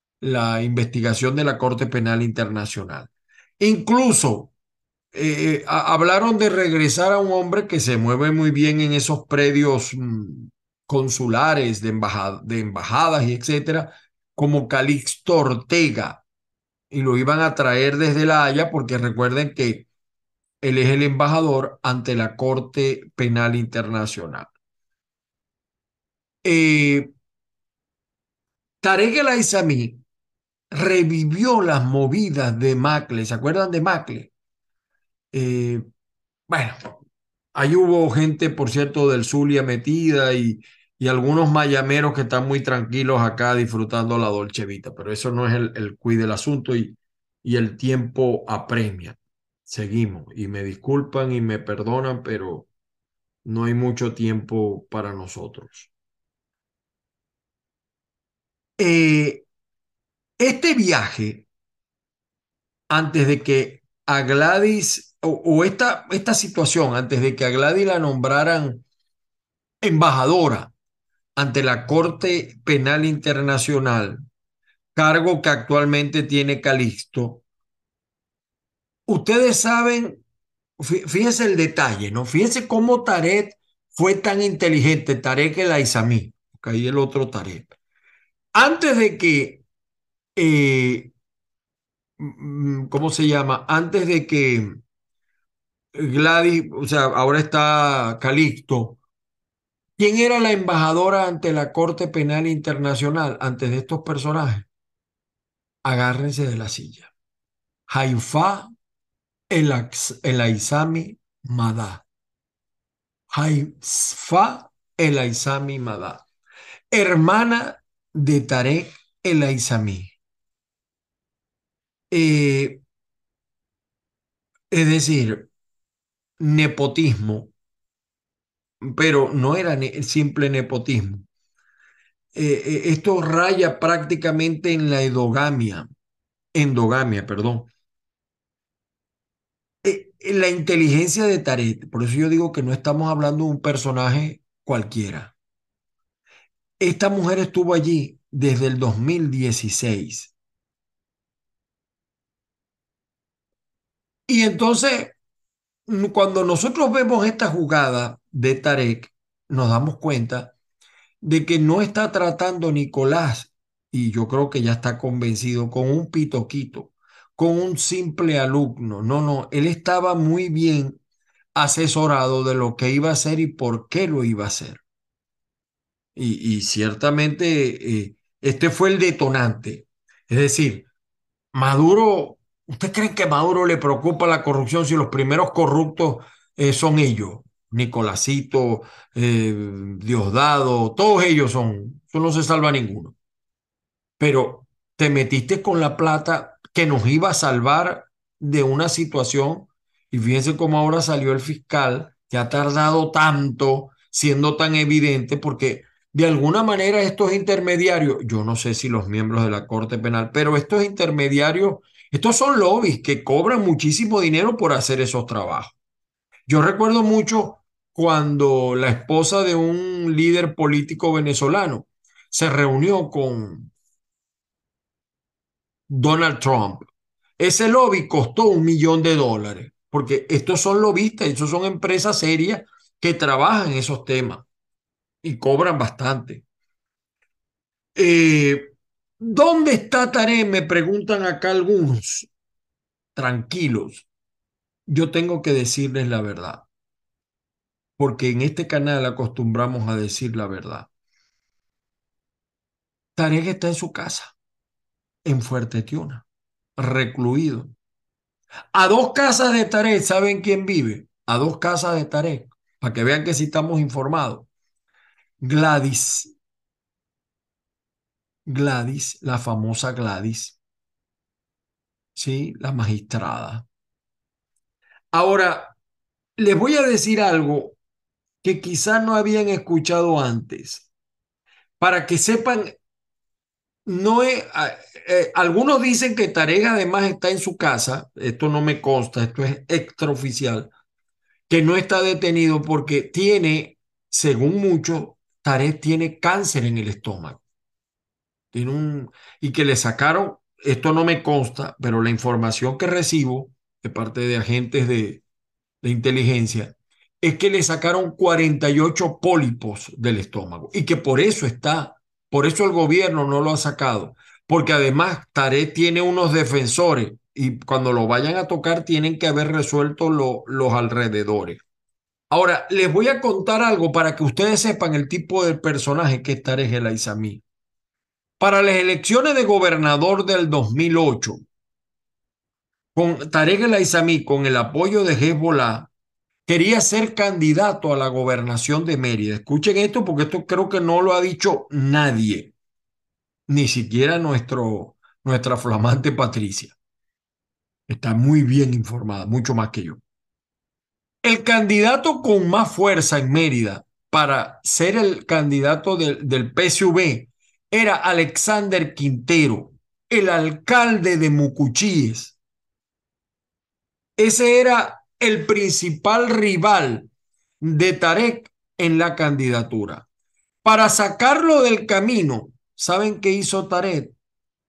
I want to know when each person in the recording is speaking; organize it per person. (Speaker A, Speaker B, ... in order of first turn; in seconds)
Speaker A: 0.2-4.5, 5.1-16.2, 16.9-19.9, 20.6-24.5, 26.4-27.1, 28.8-30.0, 30.7-34.3, 35.3-35.8, 36.5-37.0, 37.5-52.7, 53.4-55.9, 58.8-59.5, 60.4-61.5, 62.9-68.8, 69.8-70.7, 71.3-74.2, 74.9-77.4, 79.1-80.2, 80.8-87.7, 88.5-89.6, 90.3-91.1, 92.2-94.8, 95.9-99.0, 100.0-104.7, 105.8-107.1, 107.9-108.7, 109.5-112.0, 113.3-116.2, 116.9-120.1, 122.1-122.8, 124.7-125.5, 126.4-127.5, 128.8-131.3, 132.3-135.9, 136.5-137.7, 139.8-145.3, 146.8-150.3, 154.3-155.2, 155.9-160.5, 161.2-171.0, 171.5-174.8, 176.2-180.9, 181.5-193.2, 194.2-215.8, 216.5-223.7, 225.9-226.9, 227.4-234.4, 235.2-236.4, 237.9-242.3, 243.2-244.1, 244.9-246.7, 248.0-250.9, 253.2-254.3, 255.2-256.2, 256.8-257.7, 258.7-264.5, 265.4-266.3, 268.4-270.6, 272.1-273.6, 275.1-275.7, 276.4-277.8, 278.4-280.9, 281.8-282.8, 283.9-290.7, 291.5-297.4, 298.5-305.2, 305.8-321.6, 322.3-327.4, 328.4-331.4, 332.9-335.9, 336.5-342.5, 343.5-346.8, 347.9-350.0, 351.2-362.4, 364.2-367.1, 367.6-370.1, 370.6-374.1